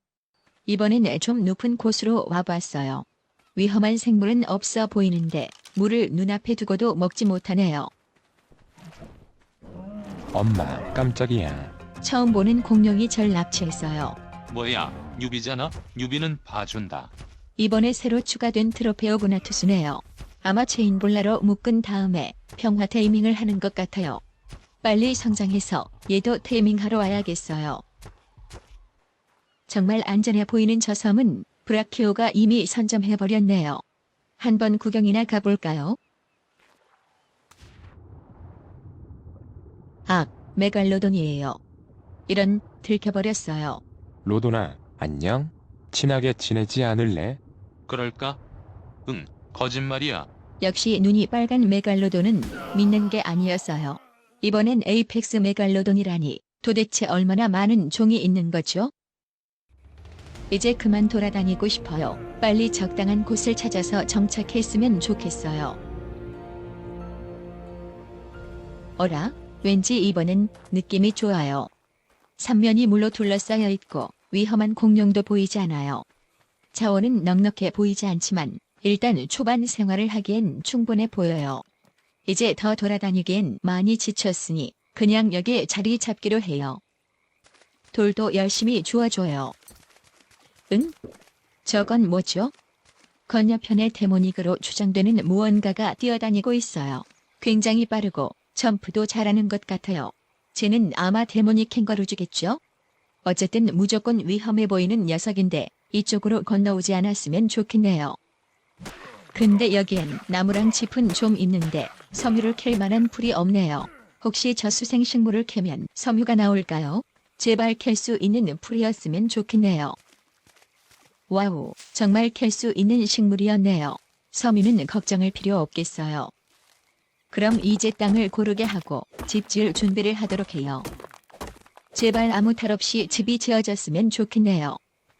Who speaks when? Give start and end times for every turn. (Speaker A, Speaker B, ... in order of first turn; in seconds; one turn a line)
Speaker A: 0.7-7.9
Speaker B: 10.3-11.7
Speaker A: 12.0-14.2
Speaker C: 14.5-17.1
Speaker A: 17.6-24.2
Speaker A: 24.8-27.8
Speaker A: 29.7-33.8
Speaker A: 34.4-36.0
Speaker A: 40.0-41.6
Speaker A: 42.3-43.8
Speaker B: 44.2-47.4
Speaker C: 47.9-48.4
Speaker C: 49.0-50.3
Speaker A: 50.6-58.9
Speaker A: 60.5-65.8
Speaker A: 69.0-71.7
Speaker A: 72.4-76.0
Speaker A: 76.7-81.6
Speaker A: 82.2-86.8
Speaker A: 87.9-89.5
Speaker A: 90.7-90.9
Speaker A: 91.6-92.5
Speaker A: 93.3-102.6
Speaker A: 103.2-108.2
Speaker A: 109.3-120.0
Speaker A: 121.3-126.3
Speaker A: 127.3-130.9
Speaker A: 131.9-134.8